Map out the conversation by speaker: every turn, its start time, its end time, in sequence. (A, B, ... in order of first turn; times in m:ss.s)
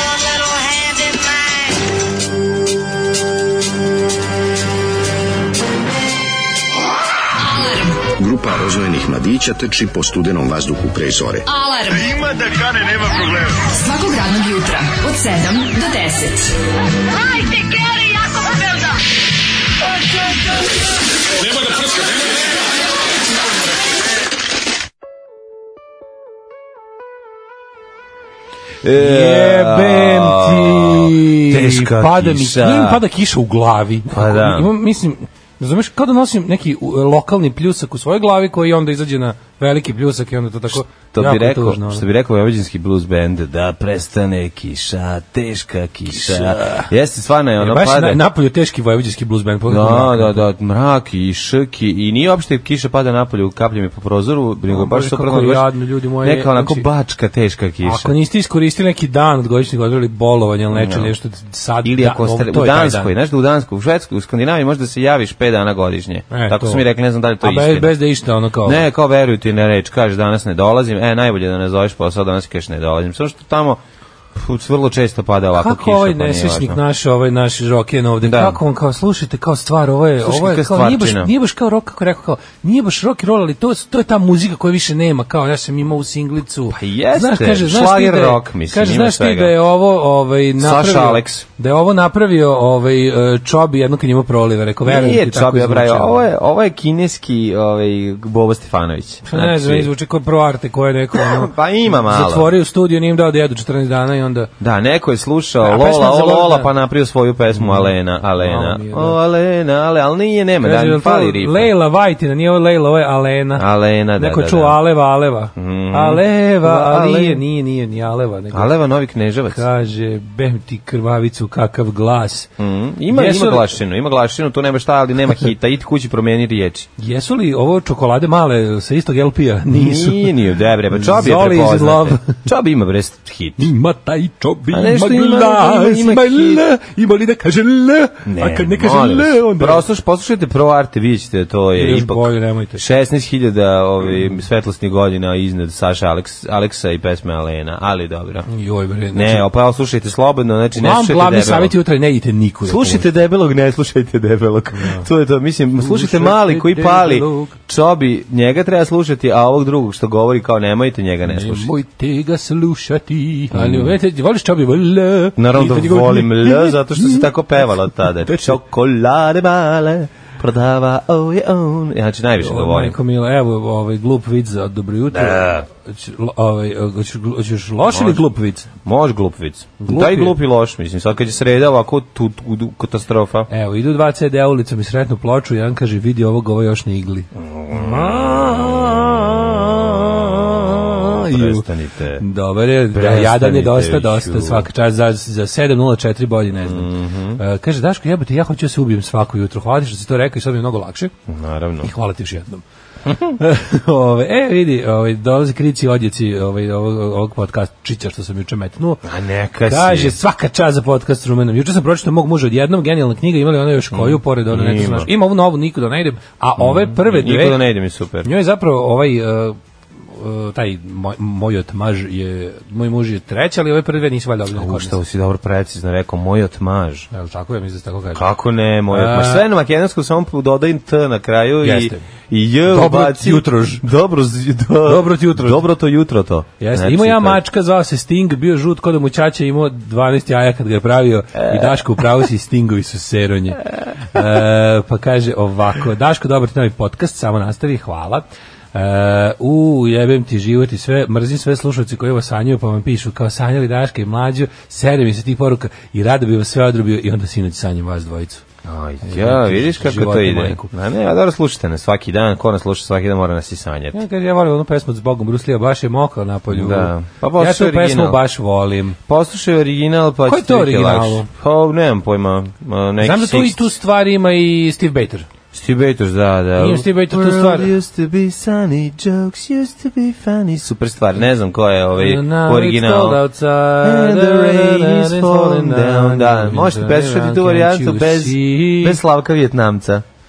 0:07.4-0:08.0 A
0:08.1-0:11.4 B
0:11.5-0:12.2 A
0:13.1-0:16.6 A
0:17.3-0:18.5 A
0:28.8-0:33.0 C
0:29.0-0:42.0 D
0:34.1-0:34.7 C
0:40.7-0:48.2 C
0:46.1-0:46.9 D
0:47.6-0:50.4 D
0:49.7-0:55.7 C
0:54.7-0:56.9 D
0:56.2-0:58.1 C
0:57.8-1:03.1 D
1:00.7-1:01.1 C
1:01.8-1:08.0 C
1:06.3-1:06.9 D
1:07.4-1:08.8 D
1:08.6-1:13.8 C
1:14.4-1:16.8 C
1:15.5-1:36.2 D
1:18.2-1:18.6 C
1:20.2-1:21.3 C
1:26.7-1:29.6 C
1:30.6-1:31.4 C
1:34.8-1:39.9 C
1:39.2-1:44.5 D
1:41.1-1:42.5 C
1:44.6-1:51.7 C
1:45.6-1:46.7 D
1:47.6-1:49.2 D
1:50.6-1:58.8 D
1:53.6-1:54.8 C
1:55.6-1:57.4 C
1:58.5-1:59.6 C
1:59.5-2:02.5 D
2:02.6-2:06.9 C
2:03.1-2:03.8 D
2:07.0-2:10.3 D
2:09.7-2:13.7 C
2:10.9-2:12.4 D
2:13.6-2:19.8 D
2:14.7-2:16.6 C
2:18.3-2:28.5 C
2:21.8-2:22.8 D
2:28.5-2:29.5 D
2:29.1-2:31.7 C
2:30.8-2:33.1 D
2:32.7-2:41.7 C
2:34.8-2:35.0 D
2:35.8-2:37.6 D
2:41.3-2:47.3 D
2:43.5-2:43.9 C
2:45.4-2:53.0 C
2:48.0-2:48.6 D
2:52.4-2:58.7 D
2:55.1-2:55.7 C
2:57.9-2:58.2 C
2:58.8-3:03.5 C
2:59.8-3:00.4 D
3:03.5-3:11.7 D
3:07.4-3:12.2 C
3:12.2-3:21.1 D
3:12.9-3:14.7 C
3:16.5-3:17.4 C
3:21.3-3:21.9 C
3:21.8-3:22.6 D
3:23.1-3:23.4 C
3:23.2-3:29.0 D
3:29.0-3:30.2 C
3:29.7-3:37.6 D
3:33.9-3:35.1 C
3:36.6-3:38.3 C
3:38.2-3:39.6 D
3:40.1-3:45.0 D
3:44.6-3:47.1 C
3:47.1-3:48.3 D
3:48.1-3:57.4 C
3:48.9-3:49.5 D
3:51.6-3:52.0 D
3:52.7-3:53.8 D
3:54.8-3:55.6 D
3:56.6-4:08.2 D
4:01.4-4:01.8 C
4:08.8-4:18.4 D
4:18.6-4:24.0 C
4:19.0-4:20.7 D
4:23.9-4:29.0 D
4:26.5-4:28.2 C
4:29.1-4:33.6 C
4:30.3-4:31.3 D
4:33.0-4:35.3 D
4:35.5-4:43.2 C
4:36.6-4:37.7 D
4:42.0-4:49.0 D
4:43.8-4:50.0 C